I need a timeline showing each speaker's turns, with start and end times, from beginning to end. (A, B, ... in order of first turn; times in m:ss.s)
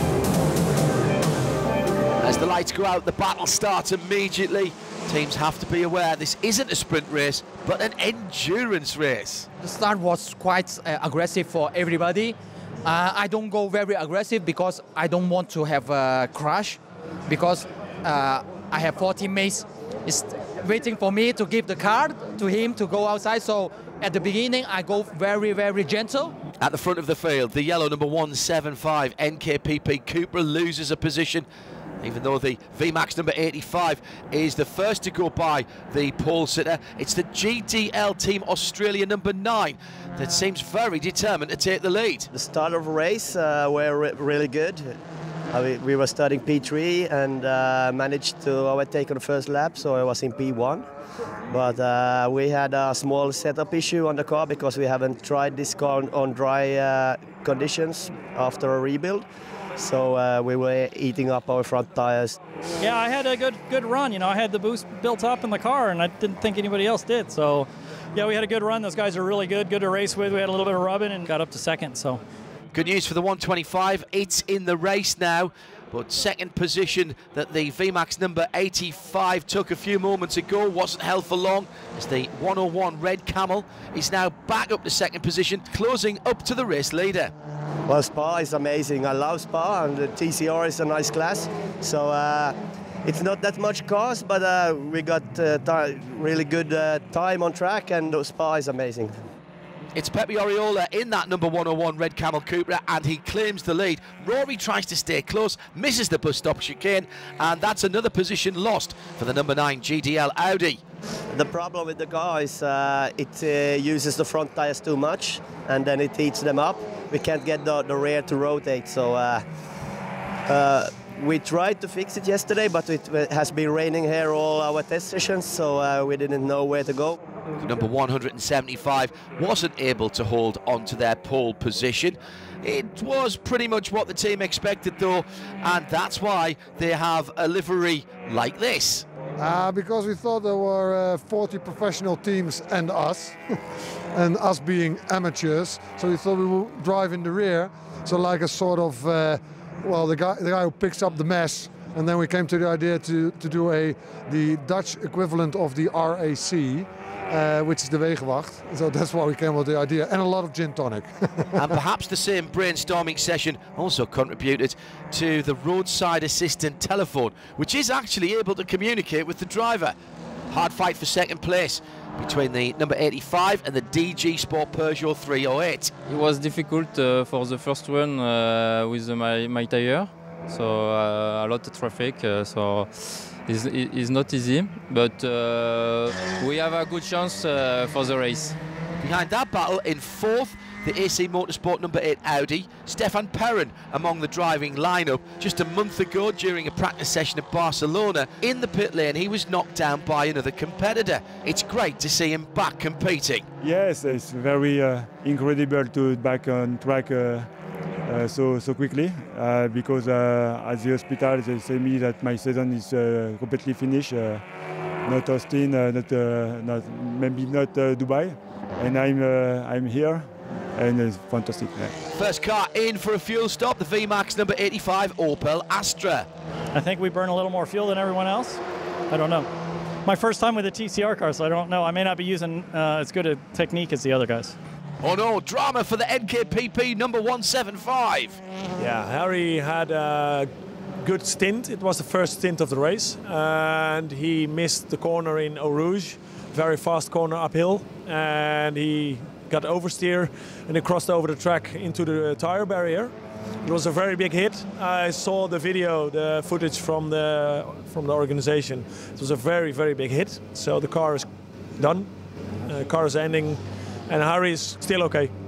0:02.2-0:09.5 A
0:09.6-0:26.4 B
0:26.6-0:31.4 A
0:32.0-0:42.3 A
0:42.3-0:44.9 C
0:45.5-0:50.8 C
0:51.5-0:59.2 C
0:59.8-1:02.4 C
1:02.8-1:12.2 D
1:12.7-1:27.3 A
1:27.9-1:39.2 C
1:39.9-1:50.8 A
1:51.3-1:59.4 C
2:00.5-2:07.2 C
2:07.6-2:19.0 A
2:19.4-2:23.4 E
2:24.1-2:41.3 E
2:41.5-2:49.9 A
2:50.5-2:55.9 A
2:56.1-3:08.6 F
3:09.0-3:23.4 A
3:23.6-3:27.5 G
3:28.0-3:34.4 G
3:35.0-3:41.9 G
3:42.1-3:46.3 A
3:46.7-3:49.5 D
3:50.0-3:54.6 D
3:55.0-3:58.4 A
3:58.8-4:00.5 H
4:01.0-4:21.2 H
4:21.8-4:22.1 H
4:22.6-4:25.3 H